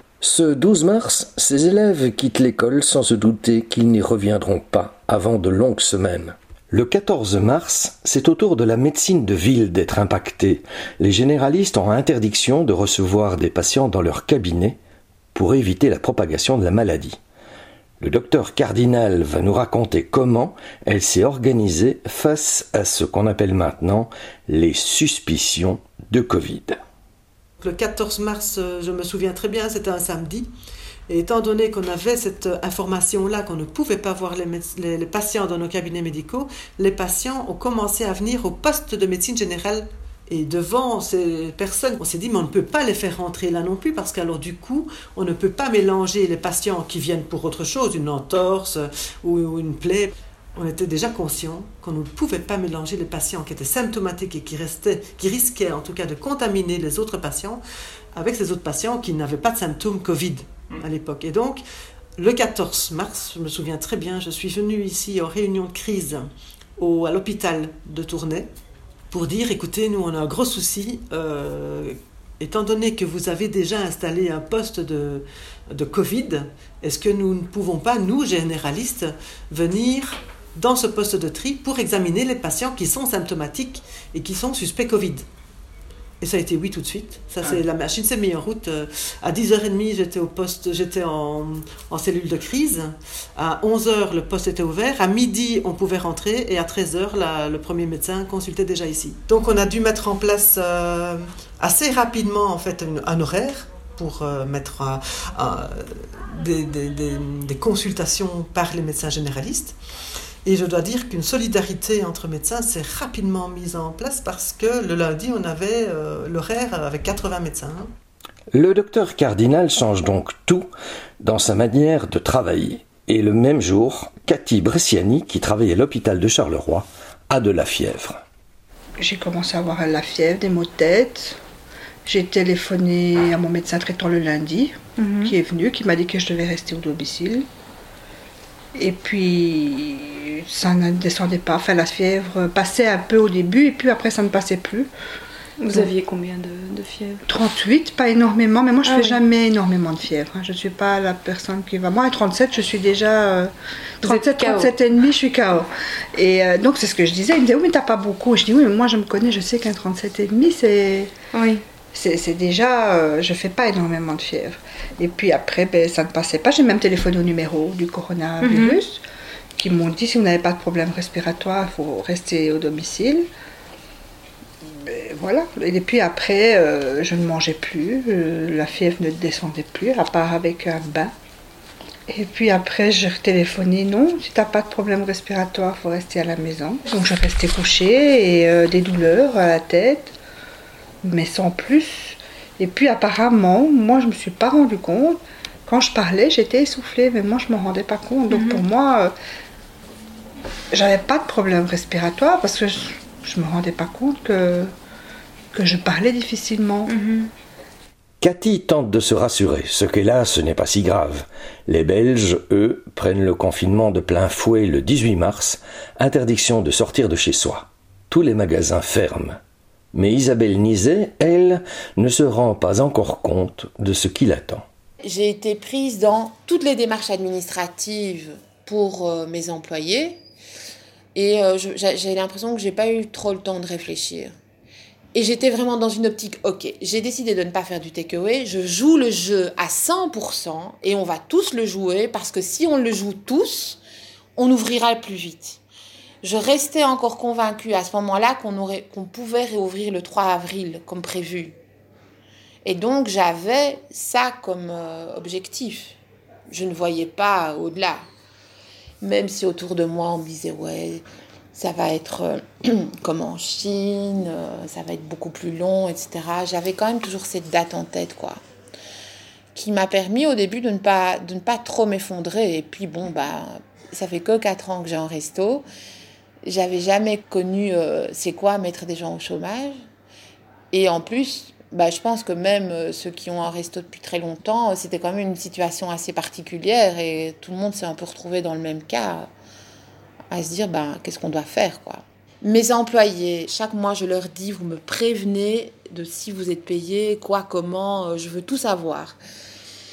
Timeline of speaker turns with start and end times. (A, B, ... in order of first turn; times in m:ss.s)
0:00.2-0:14.8 A
0:15.4-0:17.2 A
0:18.0-0:26.8 A
0:27.6-0:30.5 B
0:31.1-0:57.6 B
0:58.1-1:01.6 B
1:02.2-1:06.3 B
1:06.8-1:08.5 B
1:09.1-1:25.2 B
1:26.2-1:49.8 B
1:50.4-1:57.9 B
1:58.5-2:00.7 A
2:01.2-2:08.2 A
2:09.0-2:11.4 C
2:12.0-2:17.5 C
2:15.0-2:15.3 D
2:18.7-2:24.9 C
2:25.6-2:27.2 D
2:27.3-2:41.1 C
2:28.8-2:29.2 D
2:34.0-2:34.7 D
2:41.3-2:41.6 D
2:41.9-2:49.0 C
2:48.4-2:48.8 D
2:49.6-2:53.3 C
2:54.7-3:01.1 C
3:02.1-3:10.2 C
3:11.0-3:19.1 C
3:18.3-3:18.6 D
3:20.7-3:24.7 C
3:25.5-3:26.9 C
3:26.9-3:27.3 D
3:28.2-3:39.4 A
3:39.9-3:44.7 A
3:45.0-3:50.2 E
3:51.2-3:54.3 E
3:55.2-4:03.8 E
4:04.4-4:05.6 E
4:06.2-4:11.6 E
4:12.6-4:16.0 E
4:16.5-4:18.0 E
4:19.0-4:21.0 E
4:21.6-4:28.4 E
4:29.6-4:35.6 E
4:36.4-4:39.7 E
4:40.7-4:49.3 E
4:50.3-4:59.2 E